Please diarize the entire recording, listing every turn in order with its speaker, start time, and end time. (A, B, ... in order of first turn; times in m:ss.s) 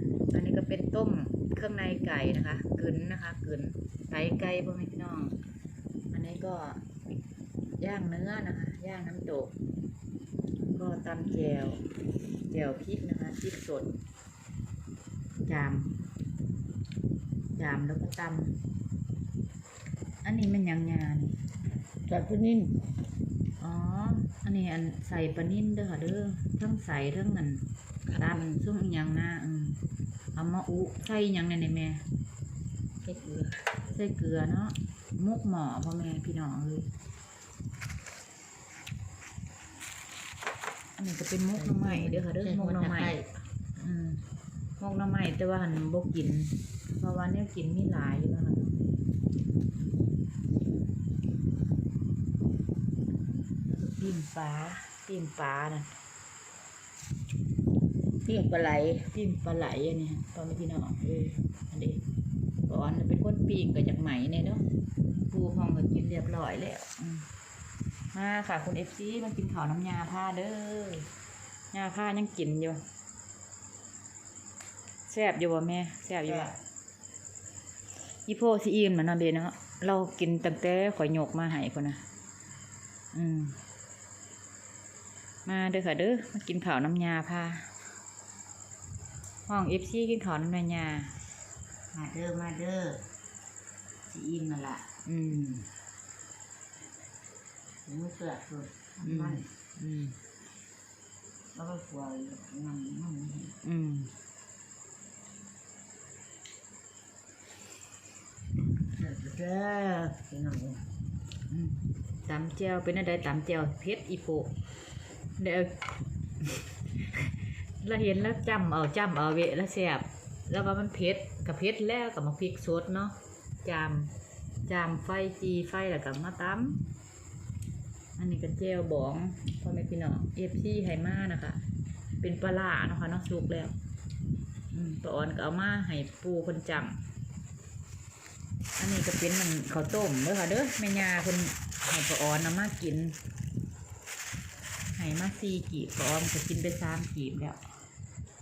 0:00.3-0:05.4 A
0:06.1-0:06.8 A
0:07.8-0:09.5 A
0:10.6-0:11.8 A
0:12.5-0:14.0 A
0:15.4-0:15.9 A
0:17.6-0:18.6 A
0:20.2-0:21.4 A
0:22.1-0:22.8 B
0:23.6-0:29.8 A
0:28.1-0:28.6 B
0:30.3-0:32.0 A
0:33.0-0:33.6 B
0:33.9-0:36.9 A
0:41.0-0:43.2 A
0:41.6-0:43.3 B
0:43.8-0:44.2 A
0:44.8-0:48.9 A
0:53.8-0:55.9 A
0:58.2-0:59.1 B
0:59.1-1:02.0 A
1:01.1-1:01.4 B
1:02.6-1:04.6 A
1:05.2-1:07.3 A
1:08.1-1:11.1 A
1:11.7-1:12.8 A
1:15.1-1:16.5 A
1:16.3-1:16.6 B
1:18.1-1:22.0 A
1:23.1-1:23.6 A
1:25.4-1:27.7 A
1:29.5-1:31.2 A
1:31.9-1:33.0 B
1:34.1-1:34.9 B
1:35.0-1:35.7 A
1:37.8-1:39.5 B
1:39.0-1:40.2 A
1:41.5-1:43.6 B
1:43.6-1:44.1 A
1:48.9-1:50.8 B
1:51.5-1:54.5 A
1:55.4-1:55.8 A
1:56.4-2:04.1 A
2:04.7-2:06.8 A
2:08.2-2:11.6 A
2:12.2-2:13.7 A
2:14.7-2:17.0 A
2:18.8-2:23.2 A
2:24.9-2:27.6 A